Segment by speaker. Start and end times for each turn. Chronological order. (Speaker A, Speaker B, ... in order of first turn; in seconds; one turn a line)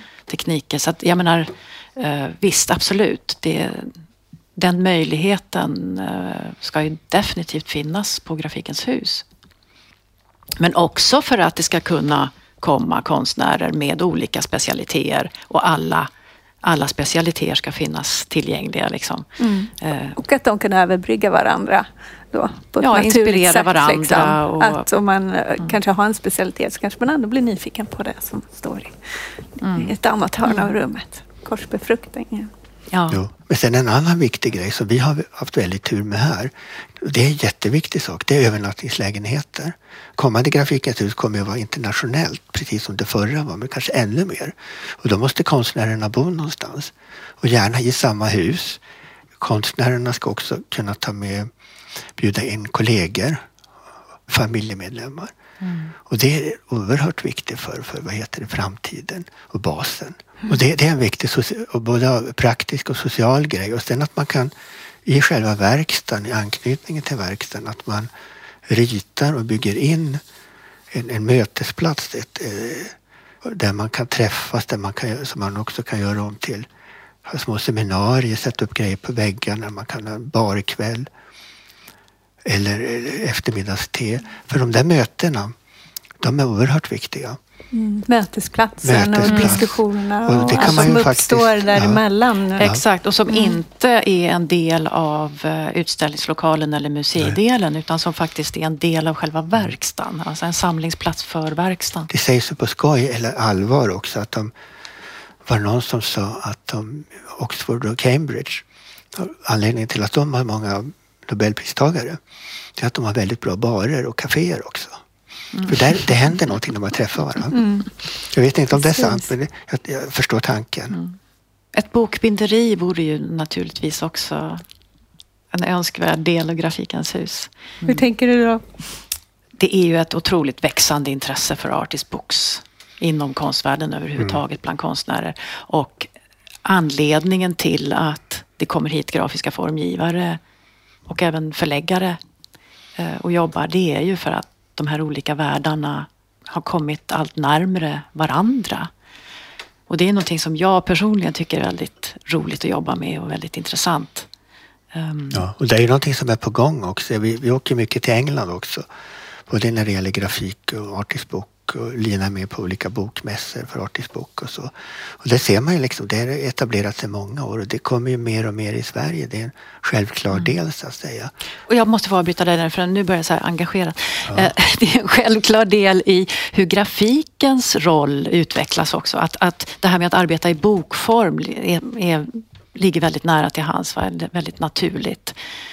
Speaker A: 0.3-3.9
Speaker A: 4.6-9.2
Speaker A: 10.6-16.1
Speaker A: 16.6-19.3
Speaker B: 19.4-32.5
Speaker A: 19.8-20.2
Speaker A: 22.8-24.8
Speaker A: 29.6-29.9
Speaker A: 32.9-33.2
Speaker C: 33.1-48.8
Speaker C: 49.4-51.5
Speaker C: 52.2-53.5
Speaker C: 54.3-55.3
Speaker C: 56.0-64.5
Speaker C: 65.0-68.1
Speaker C: 68.7-70.2
Speaker C: 70.9-76.7
Speaker C: 77.2-81.1
Speaker C: 82.4-85.5
Speaker C: 86.2-87.4
Speaker B: 87.7-92.7
Speaker C: 88.8-92.0
Speaker A: 89.3-89.6
Speaker A: 92.6-102.1
Speaker B: 93.3-93.5
Speaker C: 102.1-104.5
Speaker C: 105.4-112.2
Speaker C: 112.8-115.0
Speaker C: 115.7-117.6
Speaker B: 117.5-117.9
Speaker C: 118.3-121.0
Speaker B: 118.8-119.2
Speaker A: 121.7-124.6
Speaker A: 125.5-128.0
Speaker B: 127.8-128.7
Speaker A: 129.6-136.1
Speaker A: 136.6-140.4
Speaker A: 141.1-142.2
Speaker A: 143.0-148.9
Speaker A: 149.9-154.3
Speaker A: 154.9-155.4
Speaker C: 155.3-158.8
Speaker C: 159.5-171.3
Speaker A: 171.7-185.3